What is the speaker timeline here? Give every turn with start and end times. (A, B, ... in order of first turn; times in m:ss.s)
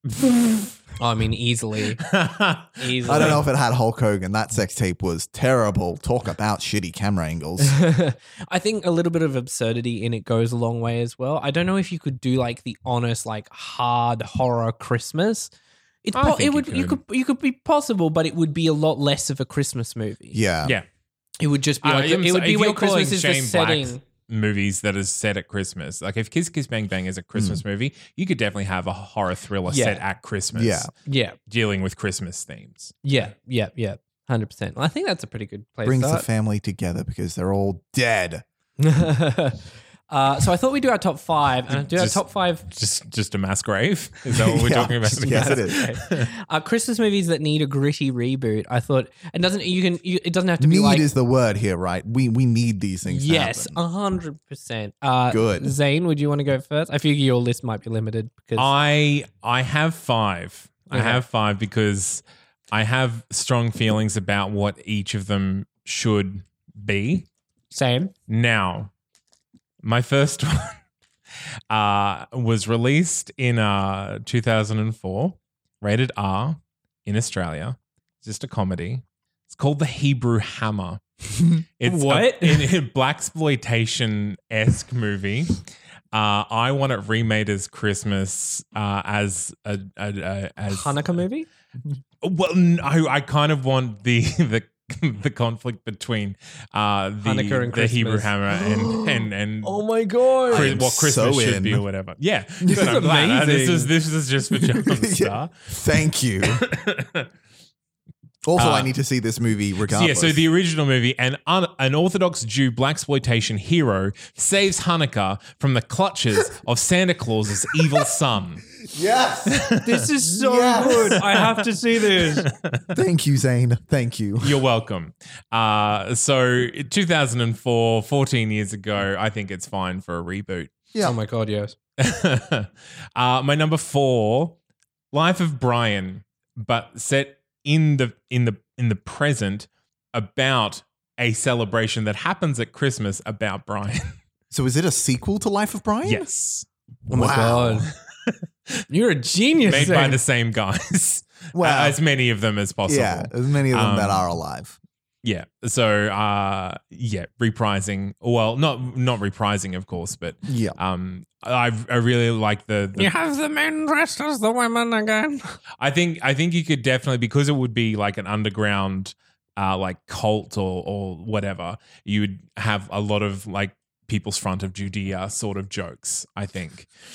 0:01.0-0:02.0 A
0:02.0-0:03.4 B
0:02.8-0:03.4 A
0:03.1-0:07.8 C
0:07.6-0:15.5 A
0:16.0-0:20.4 A
0:16.2-0:17.0 B
0:20.3-0:20.8 C
0:21.4-0:24.0 A
0:21.8-0:30.9 B
0:27.4-0:27.6 C
0:29.7-0:30.0 A
0:30.5-0:30.9 C
0:31.0-0:31.4 A
0:31.5-0:33.0 B
0:33.0-0:36.3 A
0:35.8-0:38.4 C
0:38.8-0:42.6 A
0:41.7-0:46.3 B
0:44.3-0:45.8 C
0:45.3-0:51.1 A
0:50.6-0:53.8 C
0:53.1-0:58.7 A
0:55.3-0:55.7 C
0:58.6-1:07.3 B
1:00.9-1:01.2 A
1:07.7-1:08.1 A
1:08.3-1:08.9 B
1:09.8-1:10.8 B
1:11.7-1:21.0 B
1:21.8-1:25.6 B
1:21.8-1:22.7 A
1:26.1-1:31.1 B
1:30.7-1:31.5 A
1:32.2-1:39.8 B
1:37.2-1:40.8 A
1:40.4-1:41.8 C
1:40.5-1:45.5 B
1:42.6-1:43.0 C
1:42.7-1:43.9 A
1:44.6-1:46.6 C
1:46.4-1:47.3 B
1:48.4-1:50.4 C
1:48.6-1:48.9 B
1:49.9-1:58.7 B
1:58.8-1:59.6 C
1:59.5-2:00.0 B
1:59.8-2:02.5 A
2:00.3-2:01.2 C
2:00.8-2:01.6 B
2:02.2-2:02.9 B
2:02.9-2:04.6 C
2:04.4-2:10.7 B
2:11.0-2:11.8 A
2:12.0-2:14.6 B
2:15.1-2:24.2 B
2:24.5-2:26.2 C
2:26.0-2:26.7 B
2:27.1-2:27.9 A
2:27.1-2:27.9 C
2:28.9-2:30.2 A
2:29.6-2:34.3 B
2:31.6-2:32.0 C
2:32.9-2:34.8 C
2:35.2-2:43.1 B
2:40.5-2:40.8 C
2:43.0-2:45.6 A
2:45.8-2:56.9 B